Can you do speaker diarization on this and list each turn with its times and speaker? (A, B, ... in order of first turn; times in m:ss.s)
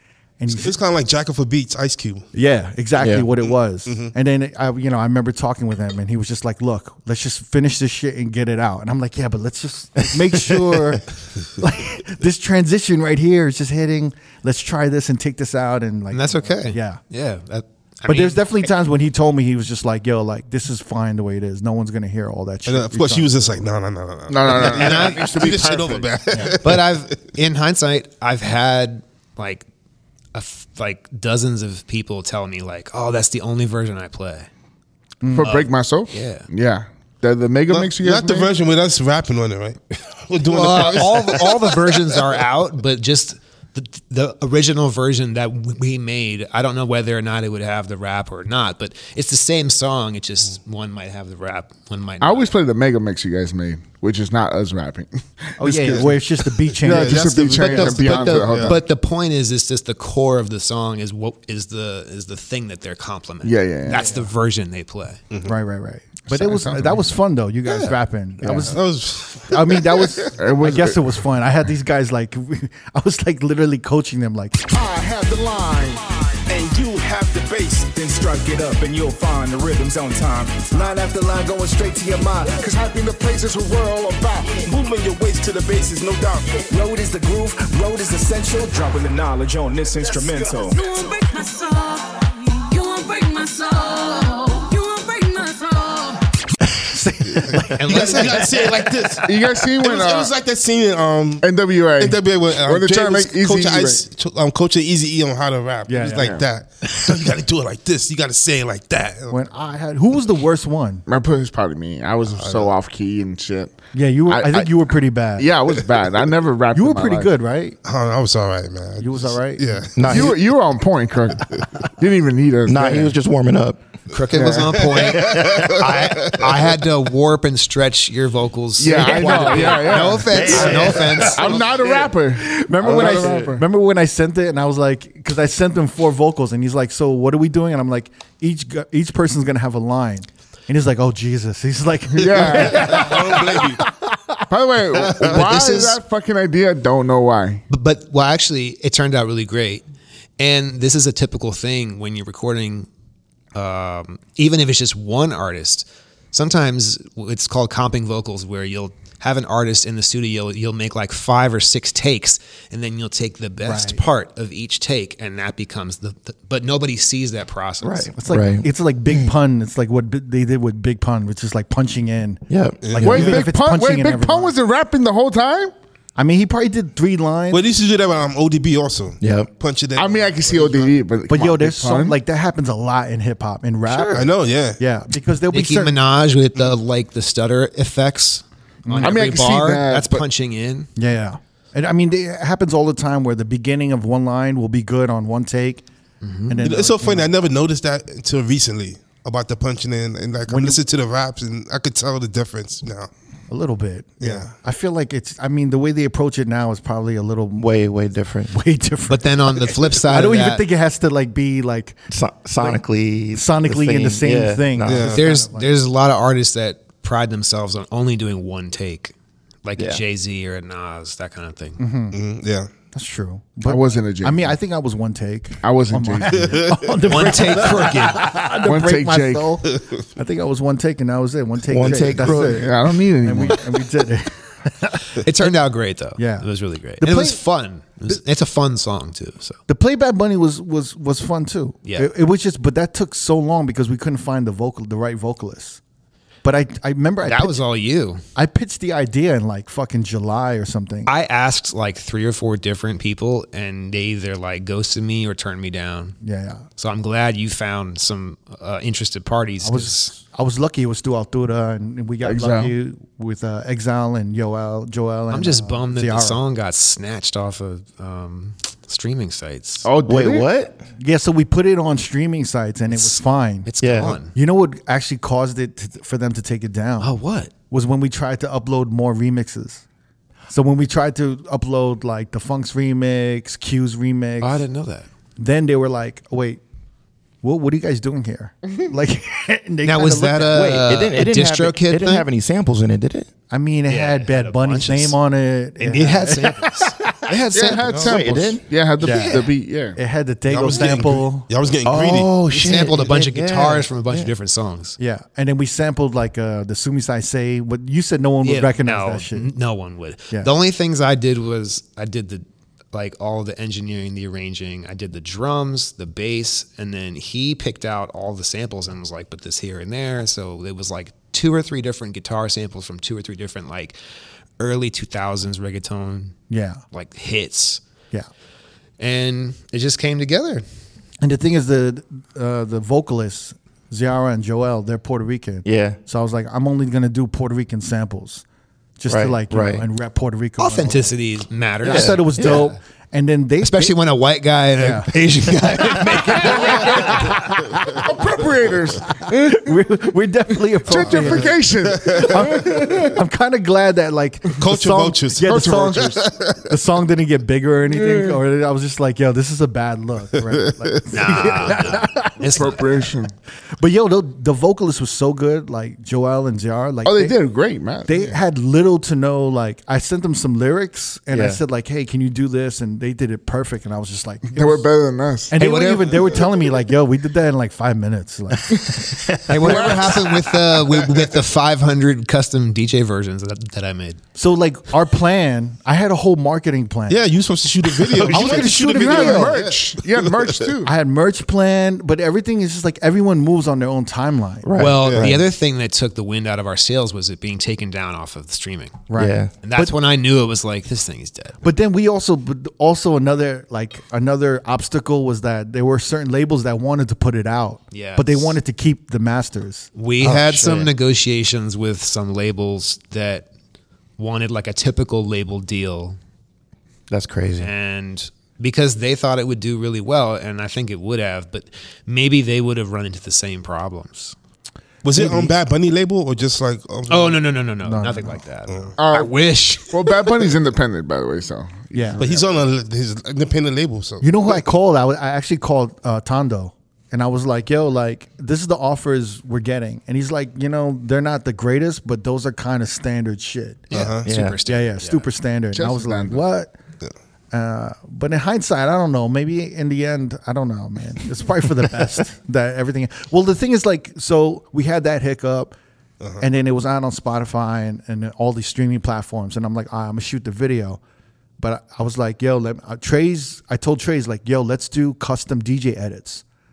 0:00.4-0:00.8 A
0:00.5-0:02.3 B
0:02.3-0:17.0 A
0:03.0-0:03.2 C
0:03.9-0:04.1 B
0:16.1-0:18.7 D
0:18.1-0:23.6 A
0:22.7-0:27.1 B
0:24.3-0:26.5 E
0:24.5-0:25.4 D
0:26.3-0:26.6 A
0:26.6-0:29.6 D
0:30.3-0:34.5 D
0:35.2-0:35.5 A
0:35.3-0:38.5 E
0:35.4-0:36.5 D
0:37.7-0:42.2 B
0:40.5-0:52.5 D
0:52.2-0:56.2 E
0:55.6-0:57.3 A
0:55.7-0:56.1 B
0:56.8-0:58.8 E
0:56.8-0:58.8 B
0:57.6-1:05.2 D
1:03.4-1:04.1 E
1:03.9-1:04.3 A
1:05.4-1:08.8 A
1:06.3-1:07.0 E
1:08.5-1:10.2 B
1:09.4-1:14.6 A
1:10.4-1:11.0 E
1:14.6-1:30.8 F
1:30.6-1:36.3 G
1:36.7-1:39.2 A
1:37.3-1:49.4 B
1:37.8-1:38.6 D
1:39.2-1:40.3 E
1:41.4-1:44.1 E
1:45.9-1:46.3 A
1:46.2-1:46.4 E
1:49.3-1:51.0 A
1:51.1-1:54.8 E
1:52.4-1:52.7 B
1:53.9-1:55.5 A
1:55.4-1:57.3 E
1:56.7-1:57.8 A
1:57.8-2:00.3 B
1:59.0-1:59.8 A
2:00.0-2:00.4 C
2:00.1-2:03.1 E
2:02.7-2:03.8 C
2:04.1-2:11.7 D
2:04.9-2:05.8 B
2:05.0-2:06.1 C
2:08.8-2:13.6 E
2:08.9-2:11.6 A
2:10.4-2:10.9 C
2:12.3-2:23.9 A
2:22.2-2:23.1 E
2:22.4-2:23.8 B
2:24.5-2:27.6 E
2:25.0-2:25.5 B
2:25.3-2:26.0 D
2:27.7-2:29.8 D
2:30.4-2:32.9 D
2:33.6-2:48.1 D
2:43.6-2:44.0 A
2:47.8-2:49.3 C
2:48.2-2:54.6 A
2:52.5-2:53.1 C
2:52.8-2:53.4 B
2:53.0-2:55.7 E
2:56.2-2:57.6 A
2:57.5-3:01.0 B
2:59.2-2:59.5 C
3:00.0-3:02.2 E
3:01.3-3:06.0 A
3:04.1-3:04.8 B
3:05.5-3:10.9 D
3:08.8-3:09.2 A
3:09.0-3:10.2 E
3:11.0-3:15.8 A
3:16.2-3:16.6 D
3:16.5-3:17.3 A
3:16.6-3:23.1 B
3:20.5-3:20.8 A
3:23.5-3:27.7 A
3:24.2-3:24.5 B
3:27.6-3:28.5 C
3:28.5-3:32.0 A
3:29.1-3:30.6 D
3:32.1-3:35.1 C
3:33.3-3:35.7 A
3:34.8-3:35.2 B
3:35.1-3:39.1 D
3:39.6-3:41.8 D
3:41.8-3:42.2 A
3:42.1-3:42.7 B
3:42.9-3:55.2 A
3:43.6-3:44.6 E
3:45.6-3:46.6 E
3:46.5-3:47.1 B
3:47.1-3:48.4 D
3:48.6-3:49.6 E
3:51.7-3:52.7 C
3:51.9-3:53.7 E
3:55.2-3:59.6 D
3:56.2-3:56.5 A
3:57.0-3:57.4 A
3:59.7-4:05.8 A
4:06.4-4:07.6 A
4:07.2-4:08.2 D
4:08.4-4:11.1 A
4:11.1-4:16.2 D
4:16.2-4:16.6 A
4:16.8-4:20.1 D
4:19.6-4:26.4 A
4:22.2-4:22.7 E
4:25.3-4:29.9 D
4:29.8-4:30.5 E
4:30.0-4:30.8 C
4:31.0-4:33.7 A
4:32.9-4:34.3 D
4:33.8-4:34.2 C
4:34.3-4:37.1 A
4:37.0-4:37.5 D
4:37.7-4:39.8 A
4:40.5-4:44.6 A
4:44.4-4:45.1 D
4:45.4-4:46.6 A
4:47.4-4:50.8 A
4:49.8-4:52.3 D
4:50.6-4:53.3 C
4:53.5-4:56.9 A
4:53.9-4:55.2 D
4:55.8-4:57.8 D
4:57.3-5:00.0 E
4:57.9-4:58.6 C
4:59.0-5:01.5 A
4:59.1-4:59.4 D
5:00.5-5:02.3 B
5:01.8-5:04.3 C
5:02.5-5:05.0 D
5:05.0-5:09.5 A
5:08.4-5:24.0 D
5:24.6-5:26.4 D
5:26.5-5:26.8 A
5:26.9-5:27.8 D
5:29.0-5:30.6 D
5:31.2-5:38.4 A
5:35.6-5:36.0 C
5:39.0-5:41.1 A
5:39.1-5:39.9 C
5:40.6-5:42.7 D
5:41.8-5:44.0 A
5:41.8-5:42.7 C
5:43.6-5:47.1 D
5:44.8-5:45.1 A
5:45.8-5:48.1 A
5:46.5-5:47.0 E
5:47.9-5:49.8 E
5:49.3-6:02.5 A
5:50.8-5:53.2 E
5:51.1-5:52.2 B
5:54.6-5:56.6 B
5:55.4-5:56.2 E
5:57.9-5:58.4 E
6:00.5-6:00.9 B
6:01.1-6:03.1 D
6:02.5-6:03.3 E
6:03.8-6:07.4 A
6:07.0-6:08.4 E
6:08.0-6:14.9 A
6:11.3-6:11.6 C
6:14.5-6:15.5 E
6:15.5-6:19.0 A
6:15.6-6:16.4 D
6:18.9-6:20.2 C
6:19.5-6:24.2 D
6:19.7-6:19.9 E
6:24.4-6:27.2 A
6:27.1-6:30.5 B
6:28.2-6:29.6 A
6:28.4-6:30.9 E
6:30.8-6:34.7 A
6:34.6-6:35.4 C
6:34.8-6:39.0 D
6:35.0-6:35.3 B
6:39.1-6:39.9 A
6:39.2-6:39.5 C
6:39.6-6:41.6 D
6:41.6-6:49.9 A
6:47.9-6:48.6 D
6:50.0-6:53.5 D
6:50.2-6:50.9 C
6:54.2-6:56.2 D
6:57.1-6:57.7 C
6:57.6-7:04.4 D
7:05.0-7:07.4 B
7:05.1-7:05.5 A
7:07.1-7:10.5 D
7:07.8-7:08.4 A
7:08.7-7:08.9 B
7:09.0-7:12.6 E
7:11.9-7:12.2 A
7:12.2-7:14.3 B
7:14.2-7:23.9 A
7:23.9-7:25.3 D
7:23.9-7:24.3 B
7:24.2-7:24.6 C
7:24.7-7:26.7 A
7:25.7-7:26.4 E
7:27.5-7:35.8 A
7:36.4-7:41.0 A
7:41.6-7:46.4 A